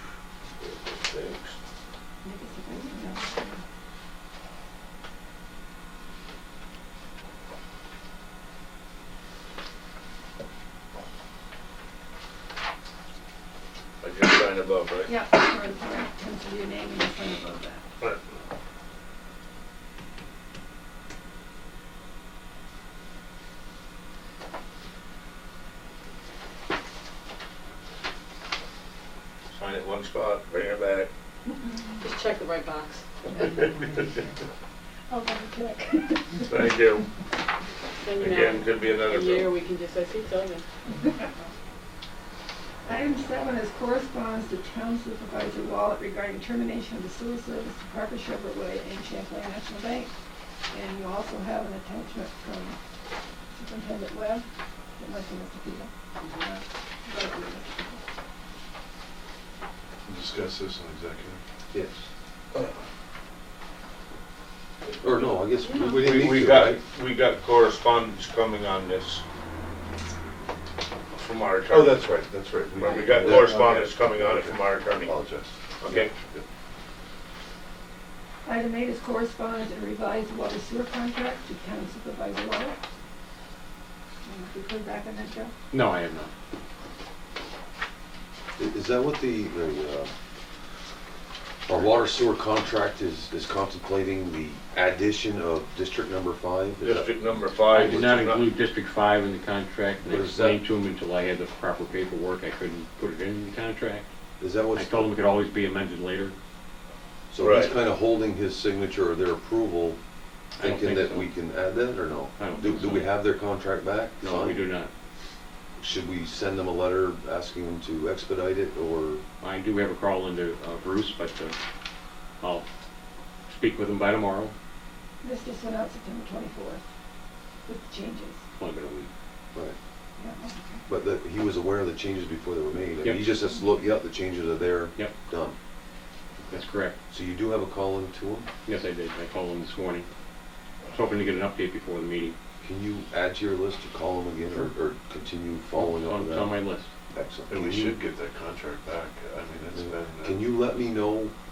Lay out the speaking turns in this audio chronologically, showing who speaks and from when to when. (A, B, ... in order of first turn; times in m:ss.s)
0:00.6-0:01.6 A
0:02.2-0:03.6 B
0:14.0-0:15.1 A
0:15.1-0:17.8 B
0:29.5-0:31.1 A
0:32.0-0:33.0 C
0:33.4-0:34.2 A
0:35.1-0:36.6 B
0:36.5-0:37.0 A
0:38.0-0:40.6 C
0:38.2-0:39.5 A
0:41.0-0:41.5 B
0:42.9-0:50.1 B
0:50.7-0:52.8 B
0:53.5-0:54.4 B
0:55.0-0:58.0 B
1:00.1-1:01.4 D
1:01.7-1:02.1 E
1:05.0-1:06.8 E
1:05.8-1:09.2 A
1:11.1-1:12.0 A
1:11.7-1:16.4 D
1:12.8-1:15.1 A
1:15.8-1:16.1 A
1:18.4-1:22.8 B
1:24.2-1:25.5 B
1:25.7-1:26.3 F
1:28.6-1:30.1 E
1:31.7-1:37.1 E
1:36.8-1:38.5 A
1:37.7-1:44.1 F
1:40.1-1:40.6 E
1:44.4-1:45.1 E
1:44.7-1:46.4 F
1:47.3-1:50.0 E
1:47.4-1:47.8 A
1:50.6-1:51.3 F
1:50.6-1:54.6 E
1:52.4-1:53.2 F
1:54.2-1:54.9 F
1:55.8-1:59.2 E
1:59.4-2:01.6 F
2:02.4-2:02.6 F
2:03.5-2:04.5 F
2:05.2-2:06.8 B
2:07.7-2:08.4 B
2:08.6-2:09.1 F
2:10.2-2:10.8 B
2:10.9-2:15.6 E
2:13.0-2:13.3 F
2:16.5-2:17.0 F
2:17.1-2:18.5 E
2:18.7-2:20.1 F
2:20.9-2:22.4 F
2:22.6-2:26.6 E
2:25.7-2:26.9 F
2:27.1-2:28.0 E
2:27.5-2:30.5 D
2:29.7-2:31.3 E